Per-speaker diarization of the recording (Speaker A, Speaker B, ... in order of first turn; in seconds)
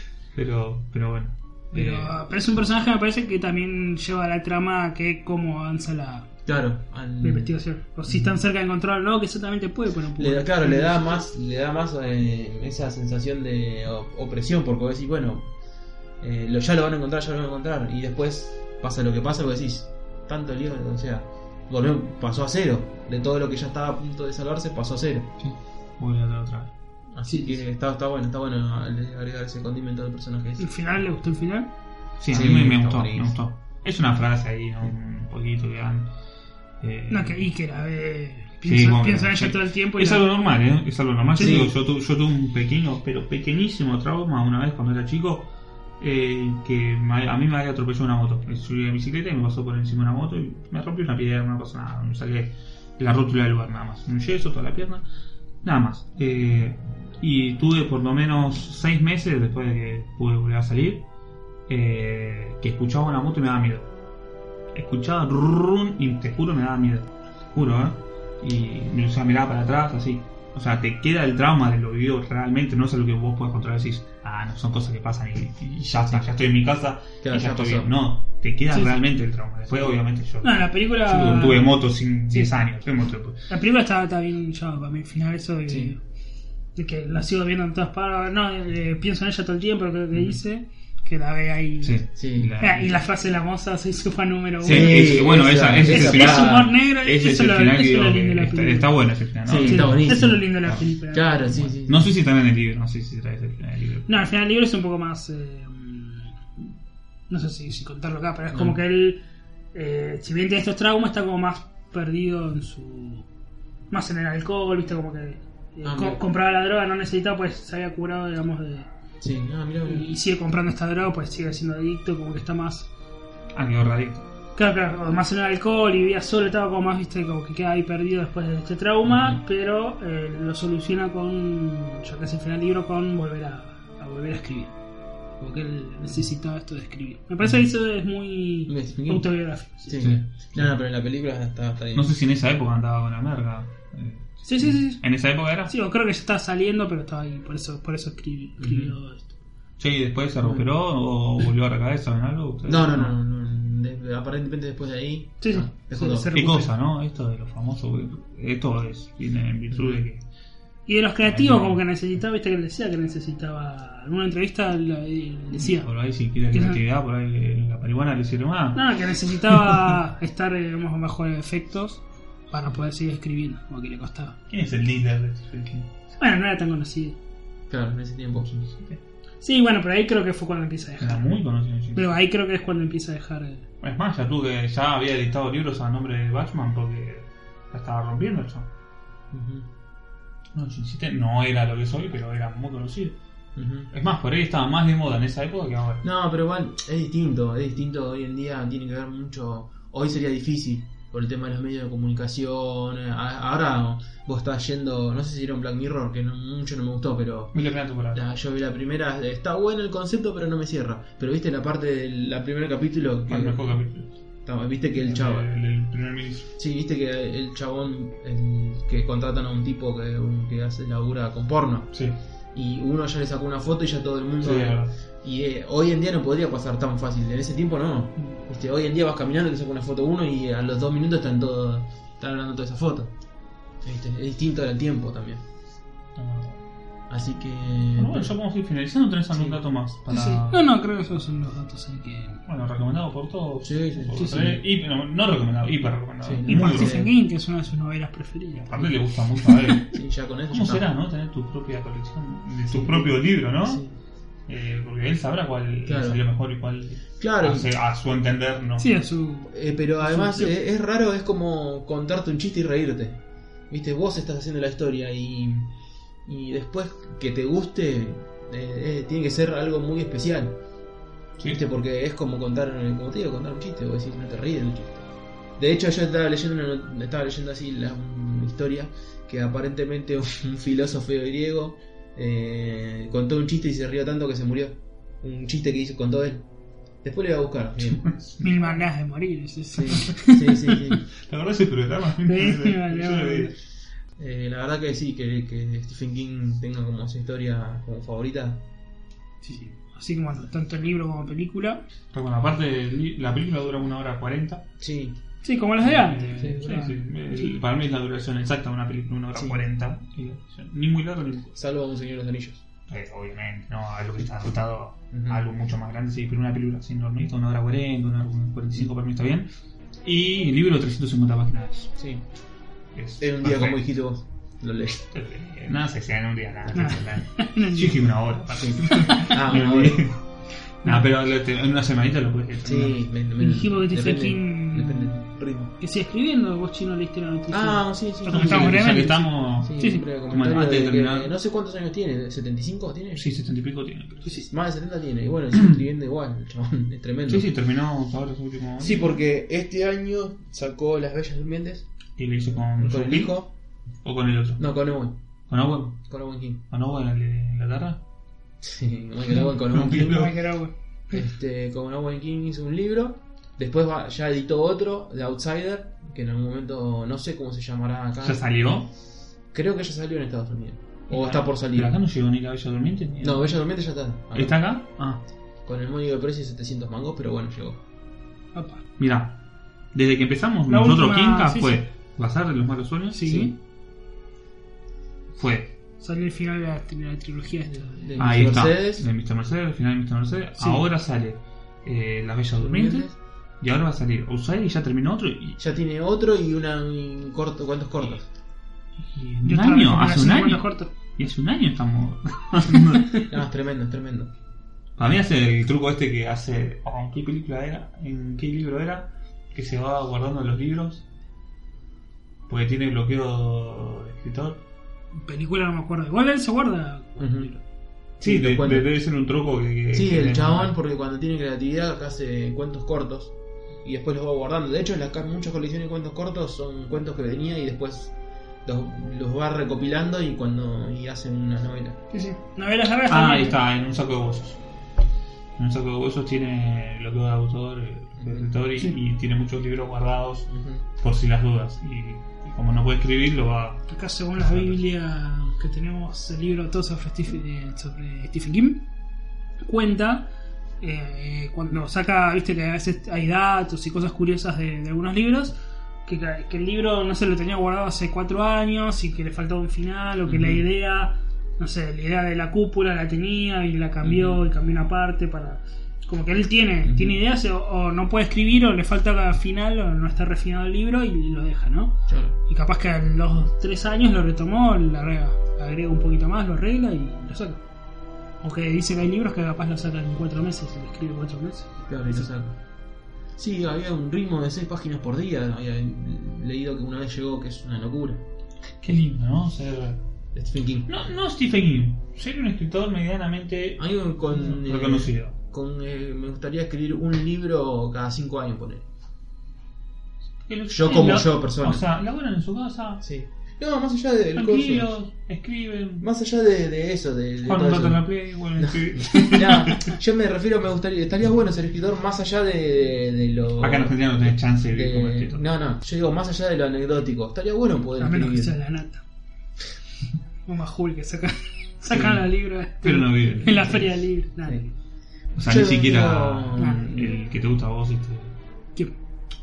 Speaker A: 0.3-2.1, 25.4-26.7, 32.2-36.1, 36.8-37.5, 38.6-55.0, 55.6-61.0, 61.7-63.9, 64.7-83.4, 91.8-92.9, 94.6-100.8, 101.5-104.1, 123.5-124.2, 140.0-140.7, 141.9-145.7, 149.8-153.2, 156.3-160.2, 161.2-161.8, 165.6-168.8, 169.5-169.7, 174.5-175.9, 178.4-179.0, 181.0-182.2, 183.8-188.7, 190.5-193.2, 193.9-196.0, 207.5-208.2, 213.3-214.1, 215.0-216.5, 224.4-224.9, 236.2-236.6, 237.9-240.6, 242.4-247.0, 248.5-253.8, 254.5-258.9, 287.9-288.4, 291.2-293.6, 302.1-304.6, 305.8-311.6, 312.9-319.5, 320.0-321.9, 322.9-323.8, 325.1-330.2, 330.8-333.1, 338.3-341.3, 343.1-344.4, 347.3-349.2, 352.2-353.5, 354.0-354.7, 355.5-356.1, 356.7-358.0, 359.7-360.3, 368.2-368.9, 371.1-373.5, 374.3-375.2, 379.0-379.4, 379.9-383.3, 385.3-385.7, 388.2-395.6, 399.0-403.3, 405.0-411.0, 412.5-414.6, 418.2-420.7, 433.1-434.6, 435.6-444.8, 488.8-490.0, 490.9-495.4, 500.4-503.0, 504.3-506.1, 507.4-509.9, 513.6-515.4, 522.8-523.8, 525.3-528.4
Speaker B: 1.7-6.3, 7.2-11.0, 27.3-27.6, 30.6-31.7, 37.1-40.2, 41.4-41.7, 78.7-79.0, 80.4-81.7, 83.5-86.0, 86.8-92.1, 92.6-95.3, 95.8-98.9, 99.5-101.6, 104.1-106.4, 107.3-109.2, 109.7-113.3, 113.9-118.9, 119.8-122.9, 124.5-134.7, 135.4-140.1, 144.4-145.0, 145.7-149.3, 155.4-156.7, 160.9-165.9, 166.5-166.8, 168.7-174.3, 176.2-177.2, 179.4-181.2, 181.9-183.6, 240.1-242.4, 244.2-244.5, 246.5-249.8, 258.8-260.5, 288.4-291.0, 292.2-293.5, 299.4-301.8, 305.4-307.6, 326.7-328.0, 328.9-329.4, 333.4-335.2, 335.8-340.0, 359.4-361.2, 378.5-378.8, 380.7-381.8, 383.1-383.5, 386.0-388.1, 399.4-400.9, 415.1-417.6, 432.1-433.6, 443.9-448.8, 449.6-450.3, 450.8-477.6, 478.4-482.3, 509.3-509.9, 518.0-519.0, 520.5-524.7, 526.6-527.0
Speaker C: 6.5-7.5, 8.1-8.3, 10.2-15.5, 16.2-25.3, 27.1-30.7, 32.3-33.4, 41.4-41.7, 77.2-77.9, 85.7-85.9, 92.2-92.5, 94.6-96.7, 99.5-100.5, 101.1-102.1, 108.5-108.8, 115.8-116.2, 119.2-120.1, 129.1-129.4, 138.7-139.3, 139.8-142.1, 148.6-148.9, 152.7-156.3, 159.7-160.0, 177.7-178.5, 189.3-189.7, 193.6-193.9, 196.0-207.5, 208.1-213.8, 214.4-215.5, 216.6-221.9, 222.5-233.1, 233.8-235.4, 237.1-238.3, 239.3-239.6, 243.6-244.6, 246.2-247.1, 249.9-250.9, 252.7-253.9, 255.8-256.2, 257.2-257.7, 259.5-265.7, 266.2-270.6, 271.4-275.1, 275.6-286.5, 287.0-288.1, 289.7-291.0, 294.1-298.6, 304.8-305.2, 306.4-306.6, 309.3-309.6, 311.5-312.6, 315.1-315.4, 321.9-322.2, 323.2-325.0, 328.6-330.1, 332.6-335.7, 337.5-339.0, 339.6-343.3, 344.4-347.5, 348.8-351.9, 352.8-353.5, 354.6-355.2, 356.1-356.6, 358.6-360.3, 361.1-368.4, 369.5-371.9, 373.2-374.7, 375.6-377.8, 383.2-383.5, 387.7-389.0, 392.6-393.1, 395.6-398.2, 403.3-404.3, 417.2-417.5, 418.2-418.9, 419.9-432.0, 438.2-438.6, 440.5-440.8, 460.2-460.6, 464.0-464.4, 466.8-467.2, 472.1-472.4, 481.9-482.6, 483.4-488.2, 490.3-490.9, 493.8-498.8, 500.7-501.8, 503.0-504.9, 506.0-508.0, 508.6-518.5, 521.9-522.2, 523.3-523.9, 525.4-527.2